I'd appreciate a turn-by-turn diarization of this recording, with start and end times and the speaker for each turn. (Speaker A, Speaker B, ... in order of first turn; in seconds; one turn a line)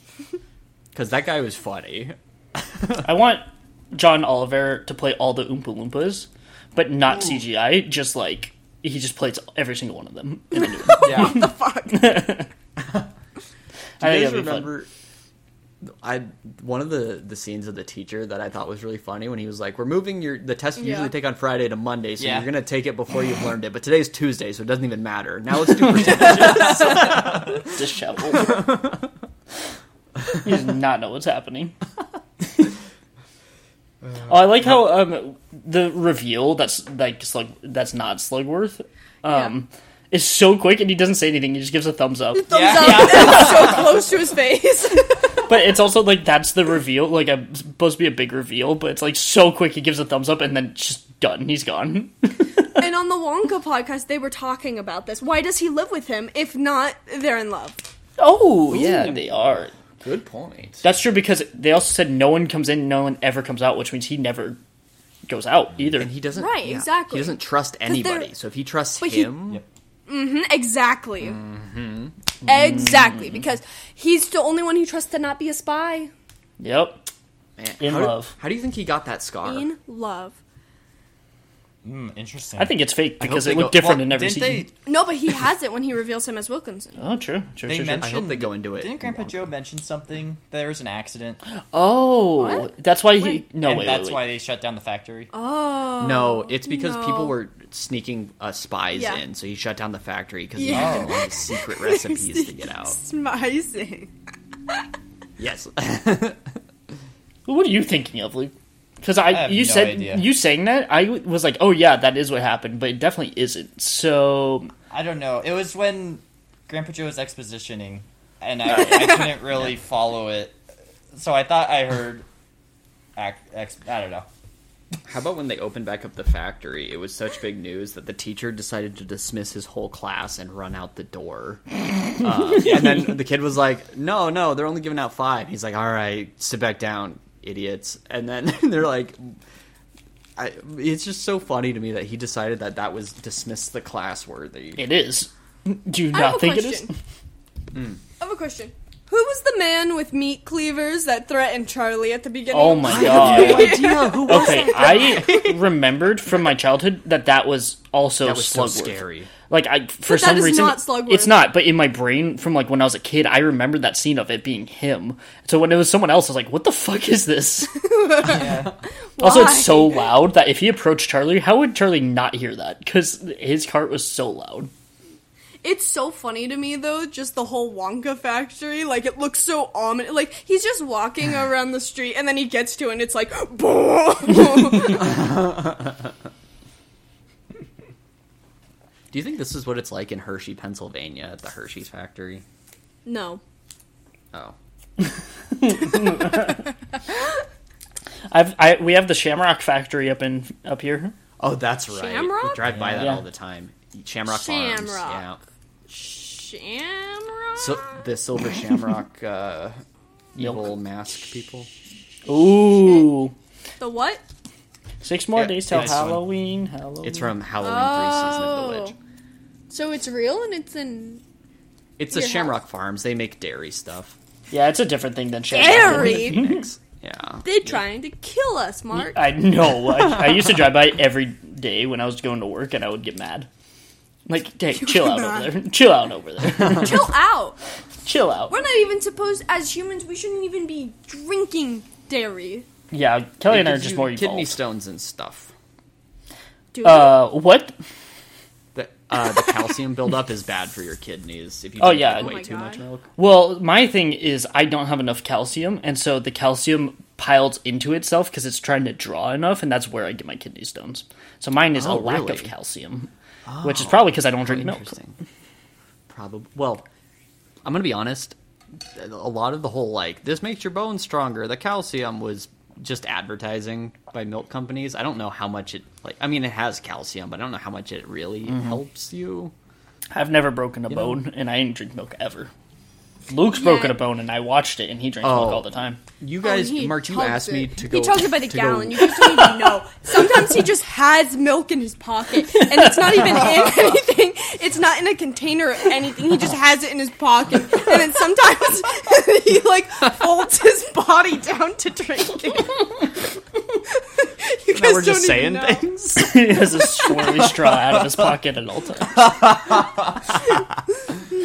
Speaker A: 0.9-3.1
Speaker B: 3.0-12.5
Speaker C: 10.5-12.3
Speaker D: 11.1-11.3
Speaker B: 14.0-14.7
Speaker A: 14.0-14.9
Speaker A: 15.8-27.7
Speaker C: 20.8-21.1
Speaker D: 22.2-22.5
Speaker B: 26.1-28.7
Speaker A: 28.3-28.9
Speaker B: 30.3-31.7
Speaker B: 34.3-43.8
Speaker C: 39.3-39.5
Speaker C: 42.3-45.4
Speaker D: 42.5-43.9
Speaker B: 45.5-52.8
Speaker C: 52.8-57.8
Speaker B: 58.2-59.7
Speaker A: 58.7-60.8
Speaker B: 60.8-64.6
Speaker B: 65.3-66.1
Speaker A: 65.9-69.6
Speaker C: 66.3-68.3
Speaker C: 69.0-69.3
Speaker C: 70.1-71.4
Speaker A: 71.2-72.1
Speaker C: 72.4-76.1
Speaker B: 76.6-77.0
Speaker A: 77.6-79.7
Speaker B: 77.8-78.3
Speaker C: 79.4-80.4
Speaker D: 81.8-82.7
Speaker B: 82.6-84.7
Speaker A: 83.2-84.0
Speaker D: 83.7-84.7
Speaker C: 84.9-87.0
Speaker B: 87.0-88.1
Speaker D: 87.7-91.4
Speaker A: 87.8-89.5
Speaker B: 91.7-94.3
Speaker C: 92.4-92.7
Speaker D: 93.6-95.3
Speaker C: 95.3-97.4
Speaker A: 96.0-103.0
Speaker C: 98.9-99.2
Speaker C: 100.5-104.1
Speaker D: 100.7-101.2
Speaker A: 105.4-106.5
Speaker B: 107.5-114.7
Speaker D: 109.3-110.3
Speaker D: 114.9-120.6
Speaker D: 121.1-122.3
Speaker D: 123.2-124.3
Speaker A: 125.0-139.4
Speaker A: 140.4-144.8
Speaker B: 144.8-146.9
Speaker C: 146.1-146.9
Speaker A: 147.7-148.0
Speaker C: 148.2-155.6
Speaker B: 152.5-167.8
Speaker A: 152.8-155.4
Speaker A: 158.2-159.3
Speaker C: 160.1-161.5
Speaker C: 167.8-168.6
Speaker D: 168.2-168.7
Speaker C: 169.2-170.1
Speaker B: 169.2-174.7
Speaker C: 175.6-185.1
Speaker A: 189.1-192.4
Speaker C: 193.1-193.4
Speaker B: 195.0-196.7
Speaker B: 198.3-201.1
Speaker A: 201.4-205.4
Speaker C: 201.9-202.6
Speaker D: 202.6-203.2
Speaker B: 203.0-203.2
Speaker C: 204.3-205.2
Speaker C: 205.9-208.0
Speaker A: 207.6-209.8
Speaker A: 210.3-211.7
Speaker B: 210.4-210.7
Speaker B: 212.3-213.3
Speaker C: 213.8-214.2
Speaker B: 215.0-217.3
Speaker A: 215.4-216.2
Speaker D: 215.7-216.1
Speaker A: 217.0-218.9
Speaker C: 217.6-218.9
Speaker C: 219.7-221.2
Speaker A: 222.0-224.2
Speaker C: 222.1-222.6
Speaker B: 224.5-226.6
Speaker C: 225.5-226.4
Speaker A: 225.7-227.4
Speaker C: 227.4-229.2
Speaker B: 228.9-233.5
Speaker B: 234.3-237.1
Speaker C: 234.8-235.5
Speaker C: 236.6-237.6
Speaker B: 238.1-238.5
Speaker C: 238.5-242.7
Speaker B: 242.9-244.6
Speaker A: 243.5-245.5
Speaker C: 246.7-247.2
Speaker B: 246.8-247.7
Speaker A: 248.7-253.1
Speaker B: 251.8-252.4
Speaker C: 252.1-252.8
Speaker B: 253.2-263.1
Speaker A: 261.7-262.5
Speaker A: 263.4-265.1
Speaker B: 263.6-264.9
Speaker A: 266.1-266.9
Speaker A: 267.6-268.4
Speaker A: 268.9-279.5
Speaker B: 280.1-282.5
Speaker A: 280.9-281.2
Speaker B: 283.3-286.0
Speaker C: 283.5-284.0
Speaker A: 285.2-285.6
Speaker A: 286.2-289.1
Speaker C: 286.4-303.0
Speaker B: 292.6-293.5
Speaker C: 304.1-305.9
Speaker A: 304.7-306.3
Speaker B: 306.2-309.3
Speaker D: 307.9-308.3
Speaker D: 309.1-310.3